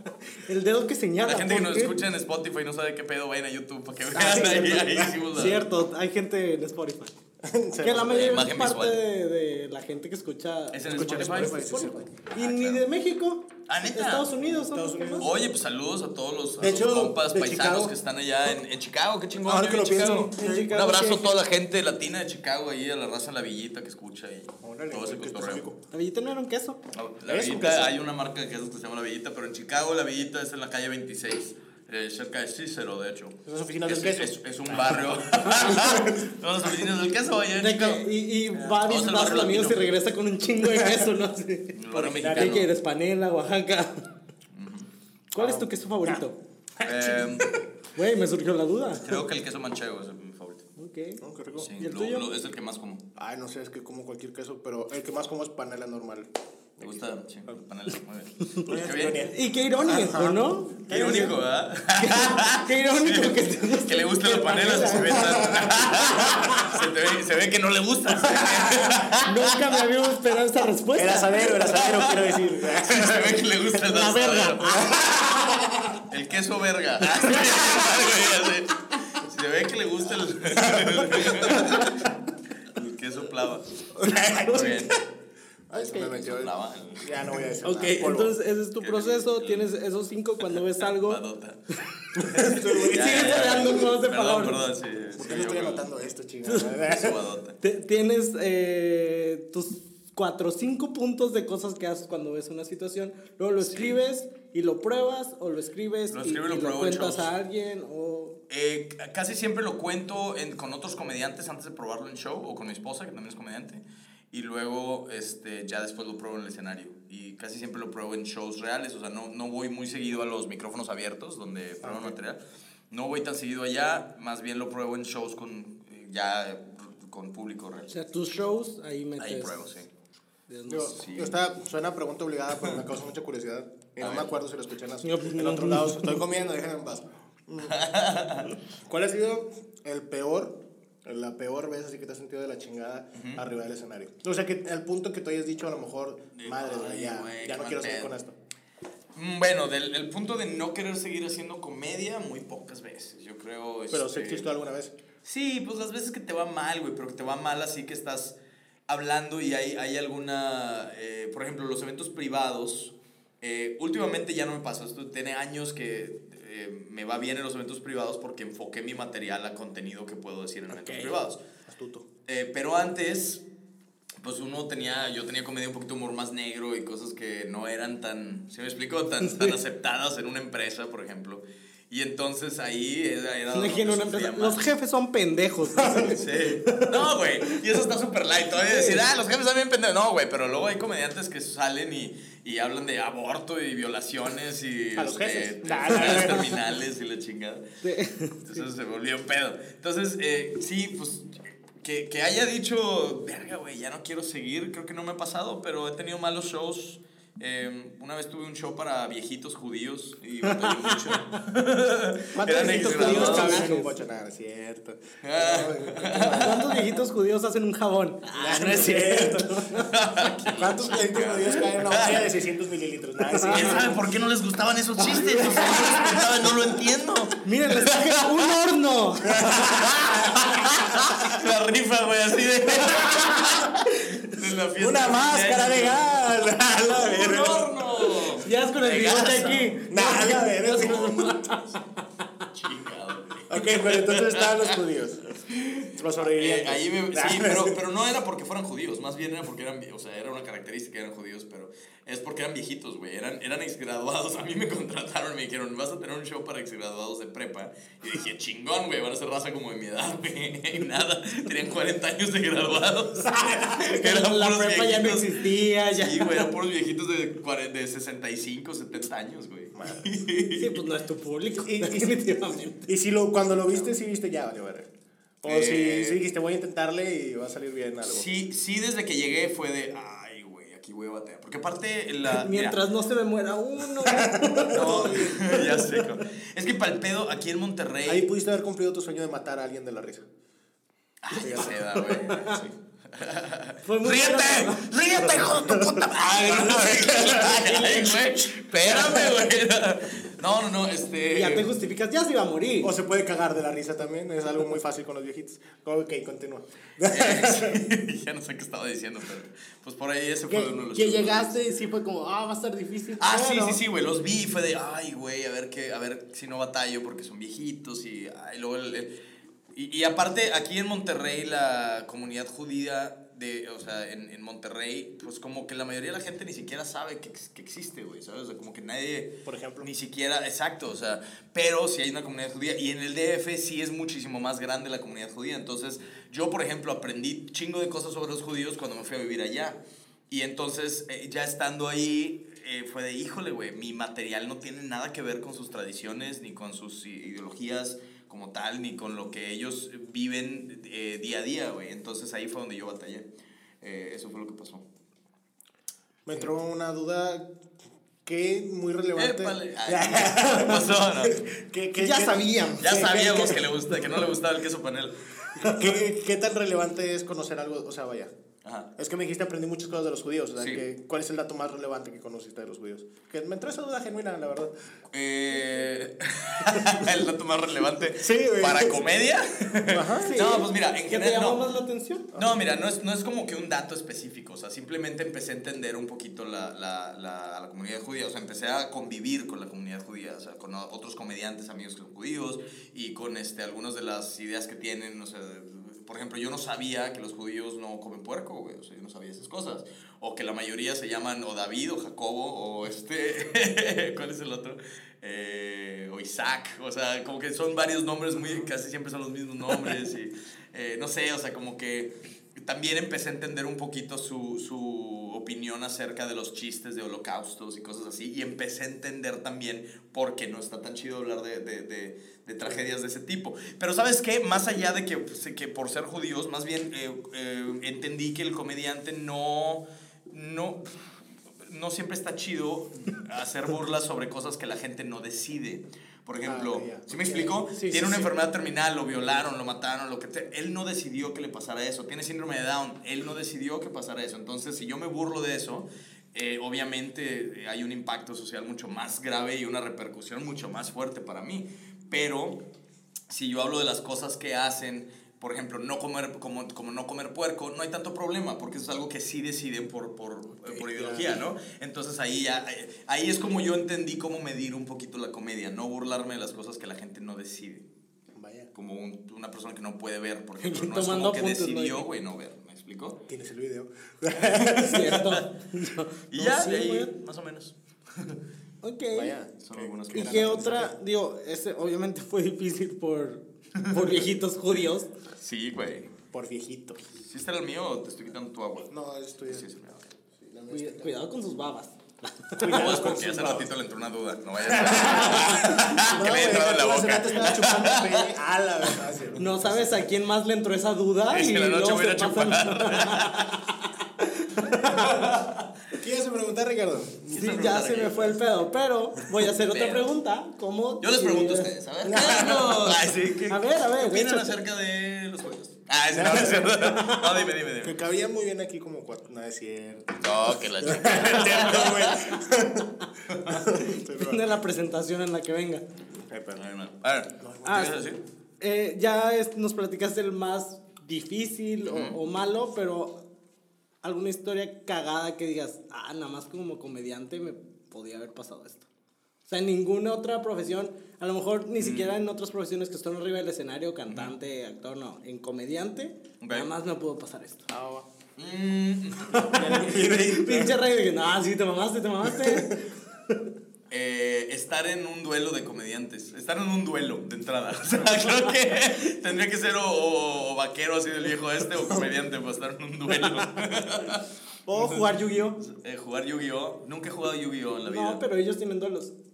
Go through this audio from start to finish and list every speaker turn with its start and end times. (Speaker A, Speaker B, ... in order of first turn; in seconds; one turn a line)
Speaker A: 0.3-2.0
Speaker B: 1.2-5.6
Speaker A: 4.1-7.1
Speaker C: 4.2-5.1
Speaker C: 7.4-8.4
Speaker A: 7.8-15.3
Speaker B: 8.1-9.0
Speaker B: 10.7-11.7
Speaker C: 10.9-12.1
Speaker B: 12.3-12.8
Speaker B: 13.7-14.3
Speaker C: 14.4-15.4
Speaker B: 15.2-25.6
Speaker C: 16.6-17.9
Speaker C: 19.4-20.6
Speaker A: 20.3-21.3
Speaker C: 24.6-25.8
Speaker A: 25.9-26.8
Speaker B: 26.9-39.9
Speaker C: 27.2-27.9
Speaker C: 33.5-34.4
Speaker C: 34.9-36.2
Speaker A: 37.6-44.0
Speaker B: 41.7-42.7
Speaker C: 42.0-42.7
Speaker B: 44.5-44.9
Speaker A: 45.3-46.4
Speaker C: 45.4-46.2
Speaker C: 46.8-47.4
Speaker B: 46.8-47.6
Speaker A: 48.0-49.2
Speaker B: 49.0-50.7
Speaker A: 50.8-51.2
Speaker C: 51.2-51.7
Speaker B: 51.6-53.0
Speaker A: 51.8-52.3
Speaker C: 53.2-57.0
Speaker B: 56.8-59.3
Speaker C: 58.6-60.5
Speaker A: 59.3-61.3
Speaker B: 60.9-69.8
Speaker A: 62.0-65.5
Speaker C: 65.1-66.6
Speaker A: 66.2-66.8
Speaker C: 68.2-68.9
Speaker A: 69.2-71.6
Speaker C: 71.0-73.6
Speaker B: 71.7-75.0
Speaker A: 73.9-74.9
Speaker C: 74.7-76.0
Speaker B: 76.1-82.1
Speaker C: 80.6-81.7
Speaker B: 82.7-83.9
Speaker C: 84.0-84.9
Speaker A: 84.2-84.7
Speaker B: 84.4-84.9
Speaker C: 85.7-88.3
Speaker B: 85.9-87.2
Speaker A: 87.6-91.2
Speaker B: 87.8-88.1
Speaker B: 88.8-89.7
Speaker B: 90.5-91.6
Speaker B: 92.1-95.8
Speaker C: 92.2-93.9
Speaker A: 92.8-94.6
Speaker C: 95.2-97.2
Speaker B: 96.8-97.6
Speaker A: 97.6-108.4
Speaker B: 103.6-104.0
Speaker B: 106.1-107.3
Speaker B: 108.5-122.4
Speaker C: 121.8-122.2
Speaker B: 122.9-127.9
Speaker A: 127.9-129.6
Speaker B: 129.2-129.9
Speaker A: 130.5-131.0
Speaker C: 130.7-137.8
Speaker B: 130.9-131.4
Speaker B: 134.0-134.3
Speaker A: 135.0-136.2
Speaker B: 137.6-138.5
Speaker C: 138.8-148.3
Speaker B: 143.2-143.4
Speaker B: 146.3-148.1
Speaker B: 149.2-154.5
Speaker C: 153.9-154.9
Speaker B: 155.2-171.4
Speaker C: 170.7-171.2
Speaker C: 171.7-172.1
Speaker B: 172.3-173.4
Speaker B: 174.2-184.6
Speaker A: 179.2-179.6
Speaker A: 183.5-187.6
Speaker C: 185.8-186.1
Speaker B: 185.9-197.6
Speaker A: 188.6-189.0
Speaker C: 195.0-196.6
Speaker A: 196.1-196.4
Speaker A: 197.8-198.6
Speaker B: 198.4-213.7
Speaker A: 210.4-211.4
Speaker C: 212.3-216.9
Speaker A: 212.5-213.9
Speaker B: 215.2-216.7
Speaker A: 216.4-219.9
Speaker C: 218.3-219.8
Speaker B: 219.8-222.3
Speaker C: 220.5-224.0
Speaker A: 223.3-223.6
Speaker B: 223.5-228.4
Speaker C: 225.4-226.3
Speaker A: 227.4-229.4
Speaker C: 229.2-231.0
Speaker B: 229.5-236.3
Speaker C: 232.8-233.7
Speaker C: 234.8-238.2
Speaker B: 236.9-239.8
Speaker A: 238.4-241.6
Speaker C: 239.9-241.6
Speaker B: 240.8-241.8
Speaker B: 242.5-244.8
Speaker C: 243.5-245.3
Speaker B: 245.4-270.8
Speaker C: 245.9-247.8
Speaker C: 263.2-264.0
Speaker A: 263.8-266.5
Speaker C: 269.8-270.1
Speaker A: 270.5-272.9
Speaker C: 271.6-272.3
Speaker C: 272.9-274.9
Speaker C: 275.4-278.3
Speaker B: 275.4-276.2
Speaker B: 278.1-282.8
Speaker A: 282.3-285.5
Speaker C: 284.1-285.9
Speaker B: 284.7-288.3
Speaker C: 288.1-290.3
Speaker B: 291.2-301.7
Speaker C: 291.3-292.7
Speaker A: 291.5-292.6
Speaker A: 293.8-295.5
Speaker C: 296.4-297.9
Speaker C: 298.9-299.2
Speaker A: 301.3-302.9
Speaker C: 302.8-307.8
Speaker B: 307.1-311.6
Speaker A: 310.5-313.8
Speaker B: 313.2-319.1
Speaker B: 319.7-353.3
Speaker C: 329.5-329.9
Speaker B: 353.8-354.9
Speaker C: 356.3-357.5
Speaker C: 358.3-363.6
Speaker B: 359.2-361.4
Speaker A: 362.0-362.9
Speaker B: 362.8-365.8
Speaker C: 365.6-368.3
Speaker B: 368.6-368.9
Speaker C: 369.0-374.7
Speaker B: 375.1-381.7
Speaker C: 378.2-379.0
Speaker C: 379.9-380.5
Speaker A: 380.2-382.3
Speaker B: 382.3-452.6
Speaker C: 436.4-438.3
Speaker B: 453.3-467.9
Speaker C: 460.9-461.4
Speaker C: 468.4-468.7
Speaker B: 468.7-473.2
Speaker A: 470.6-472.1
Speaker C: 473.3-474.9
Speaker B: 474.4-475.4
Speaker A: 474.6-477.1
Speaker B: 476.3-478.4
Speaker A: 478.8-479.4
Speaker C: 479.1-480.9
Speaker B: 479.6-480.8
Speaker A: 480.1-485.1
Speaker B: 483.8-484.2
Speaker B: 485.4-486.1
Speaker C: 486.3-487.1
Speaker B: 487.2-488.9
Speaker C: 488.9-489.6
Speaker B: 489.5-490.1
Speaker C: 490.4-491.2
Speaker A: 490.7-493.0
Speaker C: 492.6-493.7
Speaker B: 492.6-498.3
Speaker C: 494.7-499.9
Speaker A: 499.4-505.1
Speaker B: 501.3-503.6
Speaker B: 504.8-505.7
Speaker C: 505.9-507.8
Speaker B: 507.3-508.4
Speaker A: 507.4-511.7
Speaker B: 509.7-510.1
Speaker B: 511.0-518.0
Speaker C: 512.0-513.0
Speaker A: 513.5-514.5
Speaker C: 516.1-516.9
Speaker A: 517.0-517.2
Speaker C: 517.8-520.2
Speaker B: 520.2-522.4
Speaker C: 520.8-522.9
Speaker B: 523.3-523.6
Speaker C: 523.5-524.5
Speaker A: 524.1-525.8
Speaker C: 526.3-526.6
Speaker B: 526.5-528.2
Speaker C: 527.4-527.9
Speaker A: 527.7-527.9
Speaker A: 528.6-533.2
Speaker B: 531.9-532.2
Speaker A: 534.0-538.9
Speaker A: 539.5-547.7
Speaker B: 541.8-542.2
Speaker B: 546.4-546.7
Speaker C: 547.7-548.1
Speaker B: 548.4-549.9
Speaker A: 549.3-553.4
Speaker C: 549.5-550.8
Speaker C: 552.4-552.8
Speaker B: 553.9-565.1
Speaker A: 564.7-565.6
Speaker B: 565.6-568.2
Speaker A: 567.9-569.1